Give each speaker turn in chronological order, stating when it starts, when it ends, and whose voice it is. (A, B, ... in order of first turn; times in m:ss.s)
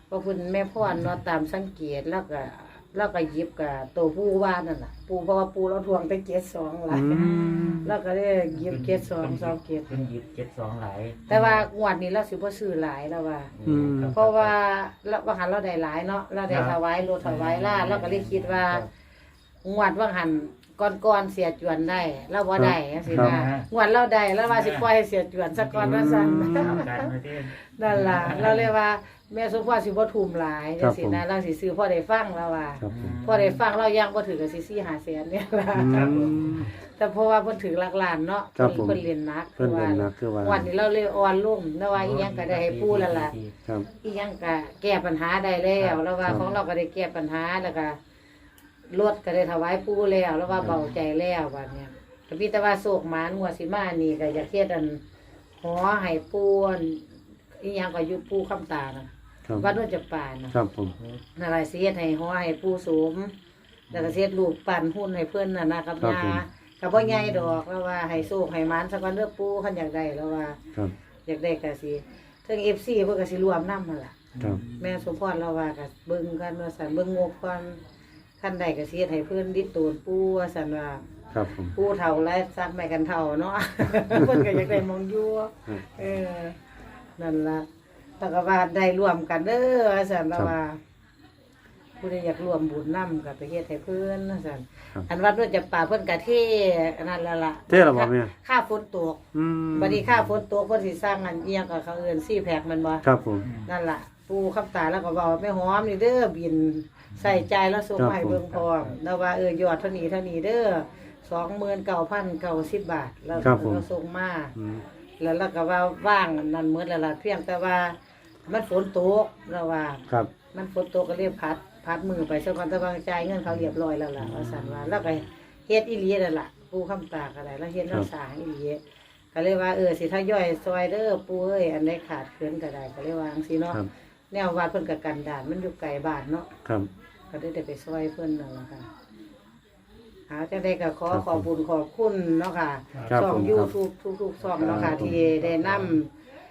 0:00.1-0:07.2 A
0:06.9-0:07.9 B
0:07.1-0:07.9 C
0:07.8-0:10.0 A
0:08.5-0:11.7 C
0:11.3-0:13.5 A
0:13.5-0:14.6 C
0:13.6-0:14.2 B
0:14.1-0:18.8 A
0:16.5-0:18.9 C
0:19.6-0:36.2 A
0:22.6-0:23.4 B
0:23.0-0:23.7 C
0:24.4-0:24.9 C
0:25.5-0:28.7 C
0:25.8-0:26.8 B
0:30.8-0:31.2 B
0:32.8-0:33.2 B
0:32.9-0:33.6 C
0:35.7-0:36.7 B
0:35.8-0:36.7 C
0:36.8-0:43.3 A
0:38.6-0:39.0 B
0:39.6-0:40.7 B
0:41.9-0:43.5 C
0:44.0-0:48.0 A
0:45.8-0:46.5 C
0:48.9-0:55.0 A
0:50.6-0:50.9 C
0:55.6-0:57.0 A
0:57.6-1:00.5 A
1:00.5-1:00.9 B
1:01.4-1:03.3 A
1:03.9-1:10.6 A
1:06.0-1:06.4 B
1:07.0-1:07.6 C
1:11.2-1:14.2 A
1:14.3-1:15.0 C
1:14.8-1:17.8 A
1:18.4-1:21.1 A
1:21.3-1:21.7 B
1:21.7-1:26.6 A
1:24.2-1:24.6 B
1:27.2-1:27.6 A
1:28.2-1:30.8 A
1:32.0-1:39.2 A
1:37.7-1:38.3 B
1:39.3-1:40.0 B
1:39.7-1:43.0 A
1:43.0-1:43.5 B
1:43.4-1:43.7 C
1:43.6-1:54.5 A
1:48.0-1:48.4 B
1:48.5-1:49.0 C
1:53.4-1:53.8 B
1:54.6-1:54.8 B
1:55.2-2:08.8 A
2:09.3-2:16.5 A
2:17.3-2:18.9 A
2:20.3-2:26.1 A
2:21.1-2:21.4 B
2:22.9-2:23.3 C
2:23.0-2:23.7 B
2:24.5-2:26.0 C
2:24.6-2:25.2 B